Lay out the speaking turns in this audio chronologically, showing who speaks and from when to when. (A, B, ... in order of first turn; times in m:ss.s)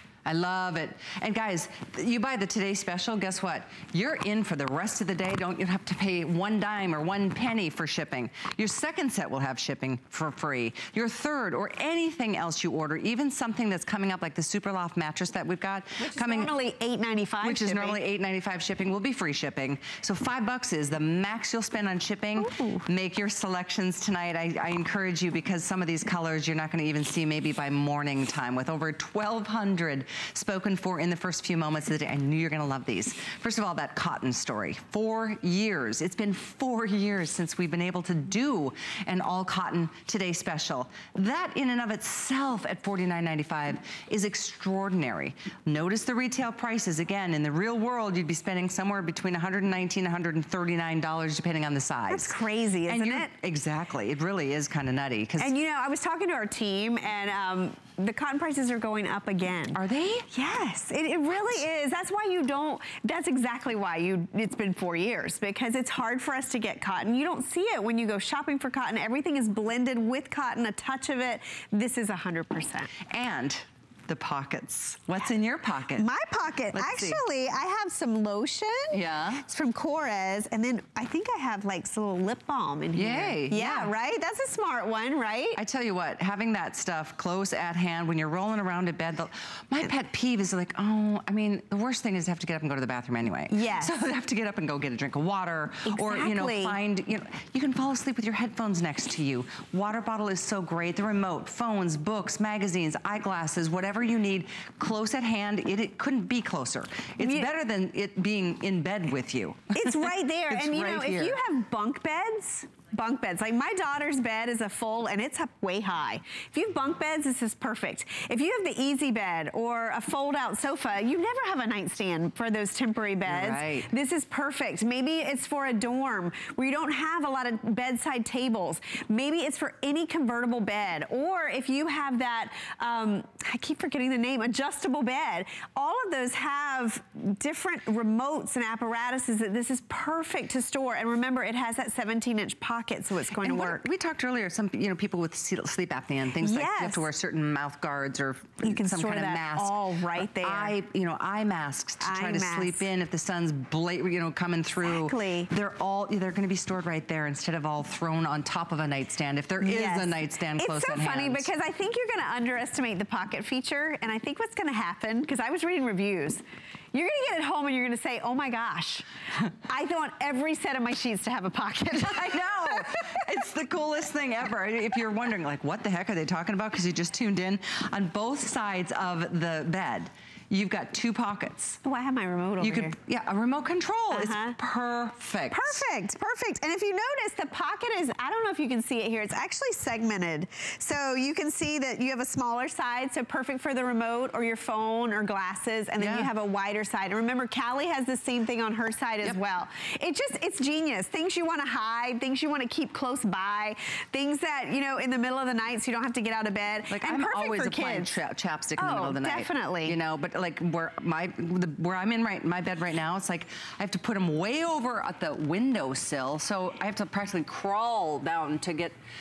0:00.3-0:16.5 A
0:16.0-0:18.0 B
0:17.4-0:52.4 A
0:22.4-0:22.9 B
0:52.1-0:53.3 B
0:52.9-0:55.5 A
0:55.4-0:59.8 B
0:59.8-1:00.3 A
1:00.3-1:12.9 B
1:13.1-1:16.1 A
1:16.0-1:25.6 B
1:16.7-1:17.2 A
1:18.9-1:19.5 A
1:22.9-1:23.9 A
1:25.6-1:51.4 A
1:33.5-1:34.0 B
1:35.9-1:36.8 B
1:47.2-1:47.5 B
1:49.7-2:23.8 B
2:03.3-2:03.9 A
2:23.4-2:41.5 A
2:26.4-2:27.1 B
2:28.6-2:30.8 B
2:32.0-2:32.8 B
2:34.8-2:35.5 B
2:39.6-2:49.1 B
2:49.7-2:53.2 B
2:52.0-3:01.8 A
3:01.8-3:03.0 B
3:02.6-3:05.8 A
3:04.1-3:04.6 B
3:05.5-3:28.2 B
3:16.0-3:16.3 A
3:26.9-3:39.0 A
3:28.8-3:30.0 B